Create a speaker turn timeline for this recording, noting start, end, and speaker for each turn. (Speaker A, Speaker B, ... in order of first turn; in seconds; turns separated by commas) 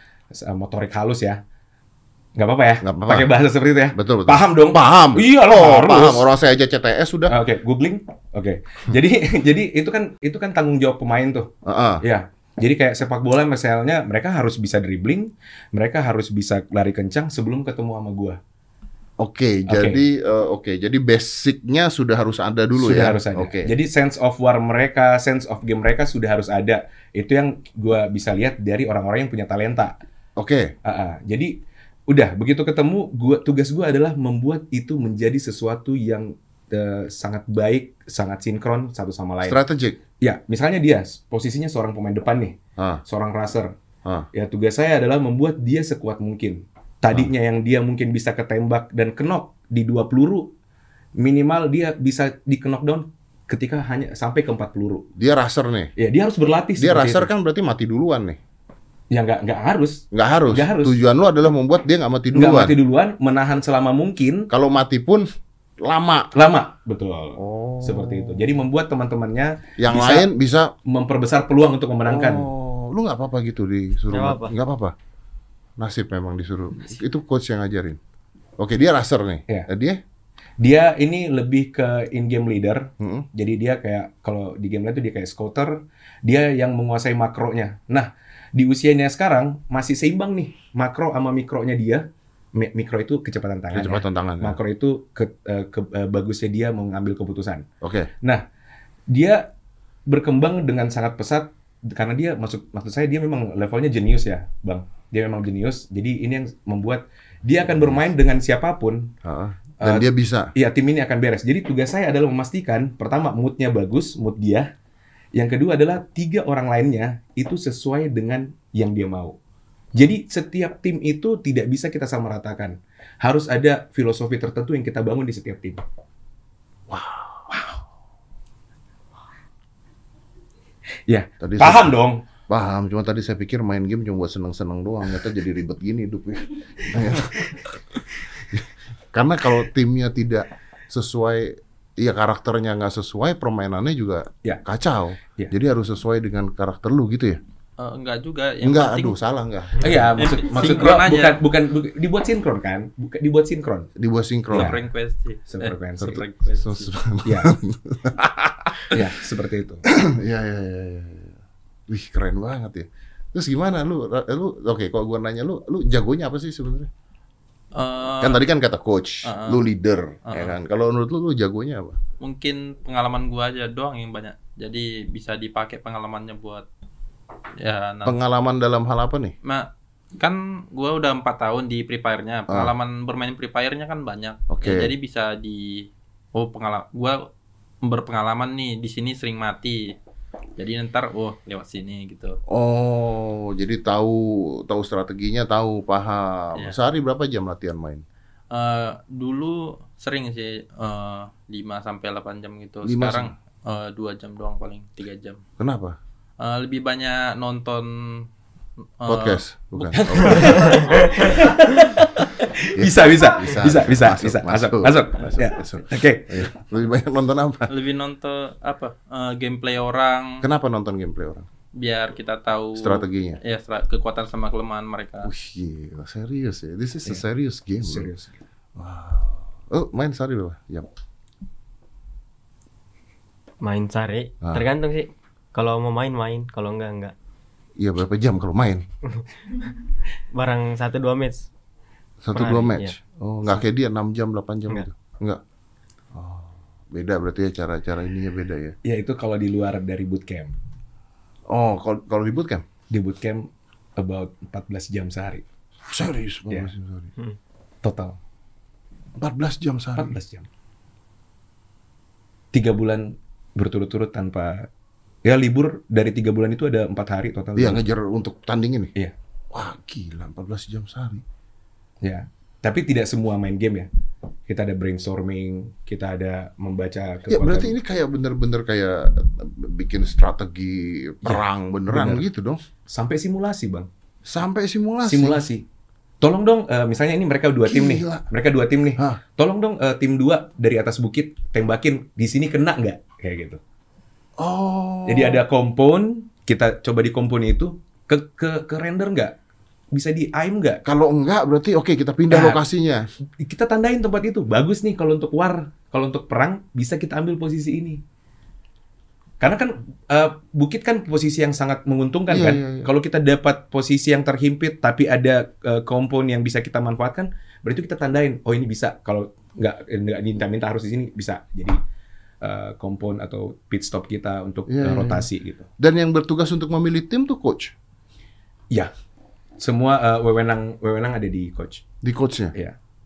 Speaker A: 0.3-1.4, Speaker A: 2.4-6.3, Speaker B: 2.8-3.3, Speaker B: 3.9-7.3, Speaker A: 7.3-18.4, Speaker B: 11.6-12.0, Speaker B: 19.2-23.7, Speaker A: 19.7-20.0, Speaker A: 22.8-30.0, Speaker B: 30.4-30.7, Speaker A: 30.8-31.5, Speaker A: 32.1-39.6, Speaker B: 39.4-40.0, Speaker A: 40.2-43.7, Speaker B: 42.8-43.0, Speaker A: 44.3-50.5, Speaker A: 51.2-55.1, Speaker B: 55.1-55.9, Speaker A: 56.0-57.3, Speaker B: 56.8-58.4, Speaker A: 59.1-61.0, Speaker B: 60.1-62.7, Speaker A: 62.3-64.5, Speaker B: 64.5-65.3, Speaker B: 65.8-66.3, Speaker A: 66.3-70.3, Speaker B: 67.4-68.6, Speaker B: 69.8-70.7, Speaker A: 70.8-72.5, Speaker B: 72.0-74.9, Speaker C: 74.1-74.5, Speaker B: 75.8-78.0, Speaker B: 78.6-80.0, Speaker A: 80.6-97.7, Speaker B: 83.0-83.3, Speaker B: 93.7-94.6, Speaker B: 97.8-98.1, Speaker A: 99.1-99.5, Speaker A: 100.1-109.1, Speaker B: 107.6-108.0, Speaker B: 109.2-110.5, Speaker A: 109.8-114.7, Speaker A: 115.3-119.4, Speaker A: 119.9-125.8, Speaker B: 126.9-127.5, Speaker A: 127.5-127.8, Speaker A: 131.1-132.2, Speaker B: 131.4-131.9, Speaker B: 132.5-147.4, Speaker D: 147.8-149.2, Speaker B: 148.6-150.0, Speaker A: 149.8-153.9, Speaker D: 149.9-151.4, Speaker B: 153.9-154.7, Speaker A: 154.5-154.8, Speaker D: 154.5-156.9, Speaker A: 155.5-156.2, Speaker B: 156.0-159.1, Speaker A: 157.2-157.5, Speaker A: 158.9-159.8, Speaker B: 159.8-166.9, Speaker D: 167.7-168.4, Speaker B: 168.2-172.0, Speaker D: 169.2-169.6, Speaker D: 170.2-170.6, Speaker D: 172.2-176.6, Speaker D: 177.6-178.2, Speaker B: 178.0-179.3, Speaker D: 179.4-187.3, Speaker B: 184.5-184.9, Speaker D: 187.8-189.9, Speaker D: 190.6-192.4, Speaker B: 192.5-198.0, Speaker D: 198.5-205.4, Speaker B: 202.8-203.3, Speaker B: 205.6-206.0, Speaker D: 206.4-208.3, Speaker D: 209.0-209.4, Speaker B: 209.1-210.9, Speaker A: 209.9-216.4, Speaker D: 210.2-210.5, Speaker B: 212.7-217.7, Speaker D: 217.7-220.5, Speaker B: 220.4-221.5, Speaker D: 221.7-225.3, Speaker B: 222.8-223.4, Speaker B: 225.2-228.1, Speaker A: 227.8-228.4, Speaker B: 228.8-230.9, Speaker C: 233.6-237.1, Speaker B: 237.8-238.8, Speaker C: 240.3-241.5, Speaker B: 242.2-245.4, Speaker C: 242.3-242.9, Speaker B: 246.1-248.8, Speaker A: 248.8-250.5, Speaker B: 251.5-252.6, Speaker A: 252.9-255.4, Speaker B: 255.9-257.1, Speaker A: 257.8-258.2, Speaker B: 259.2-260.1, Speaker A: 259.9-260.5, Speaker A: 262.5-264.7, Speaker A: 265.2-267.8, Speaker B: 267.6-268.9, Speaker B: 269.5-271.2, Speaker A: 272.0-273.9, Speaker A: 274.5-277.7, Speaker B: 277.3-282.6, Speaker A: 281.2-282.2, Speaker A: 282.9-283.9, Speaker B: 284.2-285.4, Speaker A: 285.1-285.6, Speaker A: 286.2-293.6, Speaker B: 287.6-288.3, Speaker B: 294.4-295.4, Speaker A: 295.1-299.4, Speaker A: 299.9-300.8, Speaker B: 300.8-303.1, Speaker A: 302.3-302.6, Speaker A: 303.4-308.0, Speaker A: 309.4-321.8, Speaker B: 312.3-312.9, Speaker A: 322.4-325.7, Speaker B: 324.7-325.3, Speaker B: 325.8-327.7, Speaker A: 329.6-331.8, Speaker B: 332.0-332.5